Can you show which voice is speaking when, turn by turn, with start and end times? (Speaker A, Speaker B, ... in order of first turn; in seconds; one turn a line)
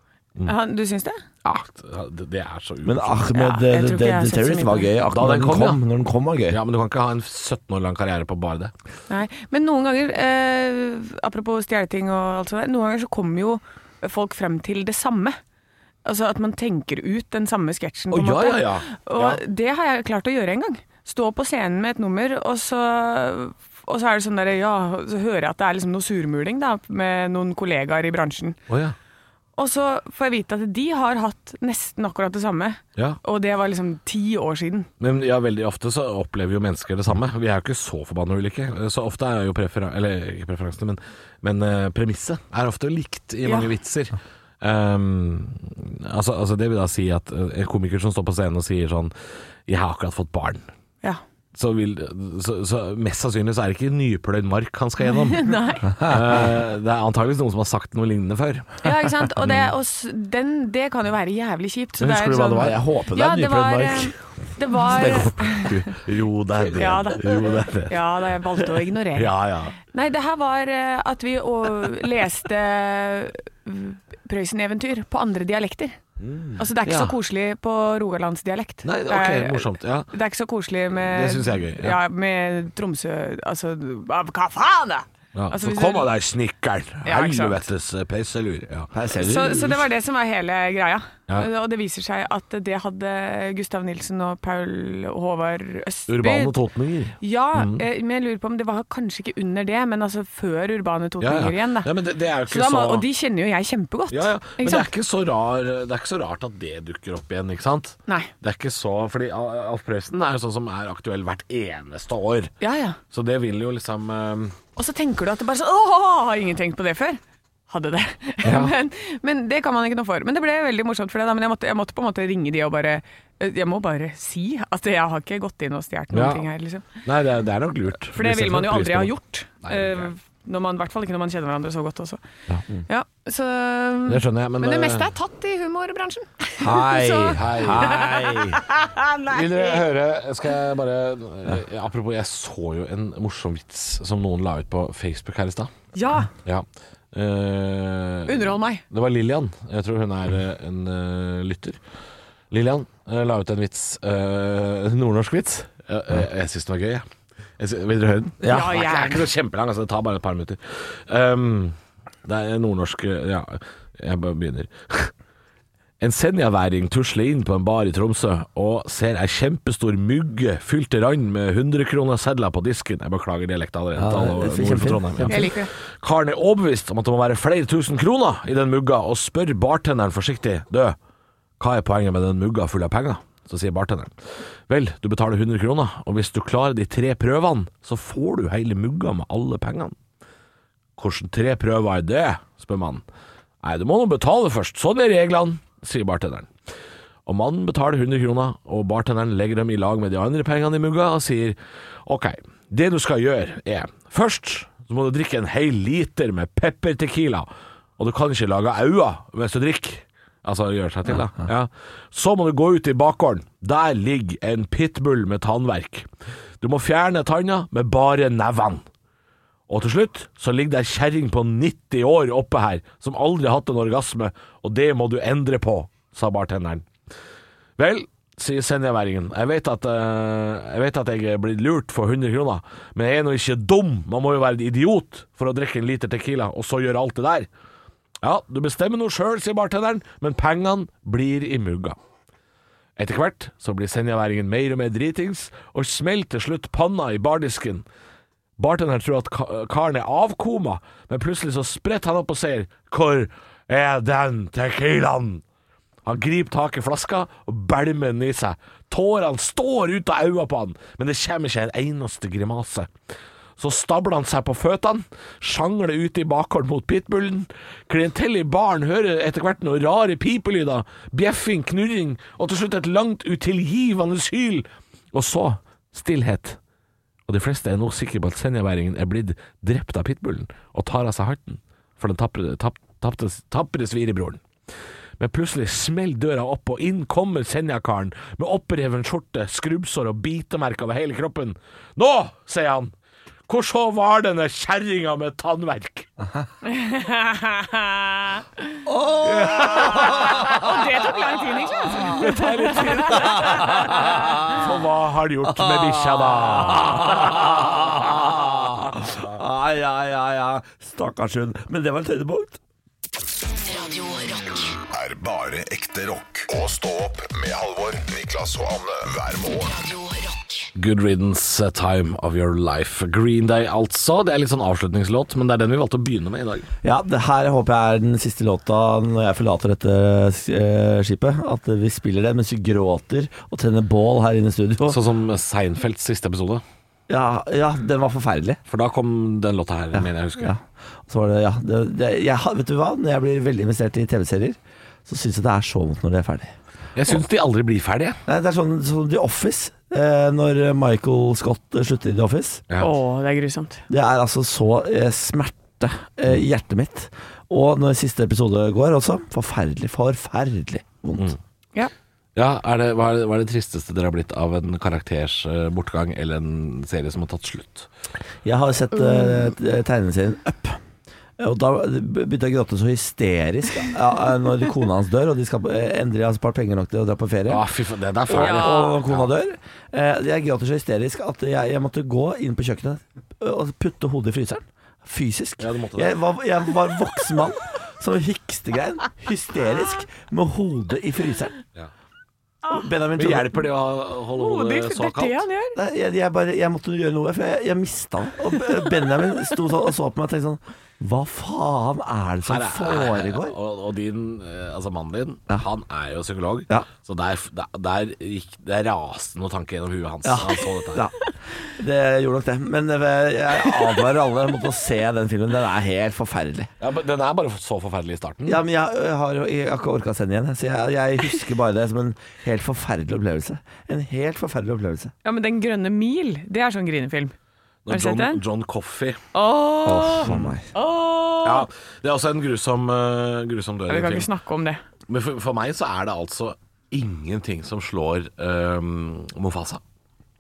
Speaker A: 0.5-1.2
Speaker B: 1.4-3.3
Speaker C: 2.8-6.6
Speaker A: 3.3-4.9
Speaker B: 5.1-5.8
Speaker B: 6.5-8.7
Speaker A: 9.1-15.4
Speaker A: 16.1-28.6
Speaker B: 18.1-19.4
Speaker B: 28.7-28.9
Speaker A: 29.6-34.9
Speaker B: 35.0-49.1
Speaker A: 43.5-43.7
Speaker B: 49.7-50.6
Speaker B: 51.5-59.7
Speaker A: 55.1-56.0
Speaker A: 58.8-66.0
Speaker B: 62.0-64.1
Speaker C: 62.6-64.0
Speaker C: 64.9-65.3
Speaker B: 64.9-68.0
Speaker A: 66.8-69.3
Speaker B: 69.2-69.8
Speaker A: 69.9-76.0
Speaker C: 76.2-76.6
Speaker A: 76.6-86.1
Speaker B: 76.9-77.1
Speaker B: 78.8-80.1
Speaker B: 81.0-82.0
Speaker B: 85.3-88.9
Speaker A: 87.0-87.6
Speaker C: 88.9-89.8
Speaker A: 89.1-96.5
Speaker B: 96.1-97.8
Speaker A: 97.2-101.9
Speaker B: 101.2-103.1
Speaker A: 102.5-104.9
Speaker B: 104.1-112.5
Speaker A: 112.6-113.0
Speaker B: 113.1-114.6
Speaker A: 114.8-126.9
Speaker B: 118.4-118.8
Speaker B: 126.1-126.5
Speaker B: 127.0-129.1
Speaker A: 128.2-132.2
Speaker B: 129.6-130.1
Speaker A: 132.9-139.8
Speaker B: 134.1-135.1
Speaker C: 136.6-138.6
Speaker B: 137.4-138.0
Speaker B: 139.3-145.7
Speaker A: 145.9-146.3
Speaker B: 146.4-151.8
Speaker A: 148.3-148.8
Speaker B: 152.5-157.1
Speaker B: 157.6-165.1
Speaker C: 158.4-158.8
Speaker A: 158.5-159.2
Speaker B: 166.0-181.0
Speaker C: 174.0-175.5
Speaker A: 175.3-175.7
Speaker B: 181.6-184.1
Speaker B: 184.7-189.9
Speaker B: 191.0-193.0
Speaker B: 193.6-196.5
Speaker B: 197.3-216.1
Speaker B: 216.6-218.9
Speaker B: 219.7-226.9
Speaker B: 227.8-237.5
Speaker B: 238.2-242.0
Speaker B: 243.0-247.8
Speaker B: 248.6-255.4
Speaker B: 256.1-262.9
Speaker B: 263.6-276.6
Speaker B: 277.3-284.4
Speaker B: 285.2-292.9
Speaker B: 293.5-296.1
Speaker A: 296.6-298.5
Speaker C: 298.9-300.9
Speaker B: 299.2-300.6
Speaker A: 299.6-304.4
Speaker C: 301.9-302.2
Speaker B: 301.9-309.2
Speaker C: 303.1-304.7
Speaker C: 305.4-312.6
Speaker D: 313.5-314.8
Speaker E: 314.9-319.9
Speaker D: 319.6-320.7
Speaker B: 320.8-326.7
Speaker C: 326.8-335.0
Speaker B: 334.9-336.6
Speaker C: 337.1-338.6
Speaker B: 338.7-340.5
Speaker C: 340.0-346.6
Speaker B: 347.0-348.2
Speaker C: 348.3-352.6
Speaker A: 352.8-353.8
Speaker C: 353.9-361.4
Speaker B: 362.4-367.9
Speaker C: 368.4-370.8
Speaker A: 369.1-369.4
Speaker C: 371.4-377.6
Speaker B: 377.5-379.3
Speaker C: 378.3-391.6
Speaker A: 378.3-379.0
Speaker B: 385.6-386.1
Speaker C: 392.7-393.6
Speaker B: 393.2-395.4
Speaker A: 394.3-395.8
Speaker C: 395.8-403.6
Speaker B: 402.5-411.1
Speaker C: 410.2-416.7
Speaker B: 416.8-418.6
Speaker C: 418.5-425.1
Speaker A: 425.2-427.4
Speaker B: 427.9-429.2
Speaker A: 427.9-428.4
Speaker A: 429.3-431.7
Speaker C: 429.9-430.7
Speaker B: 430.2-430.5
Speaker B: 431.4-434.3
Speaker A: 433.9-434.8
Speaker B: 435.1-439.8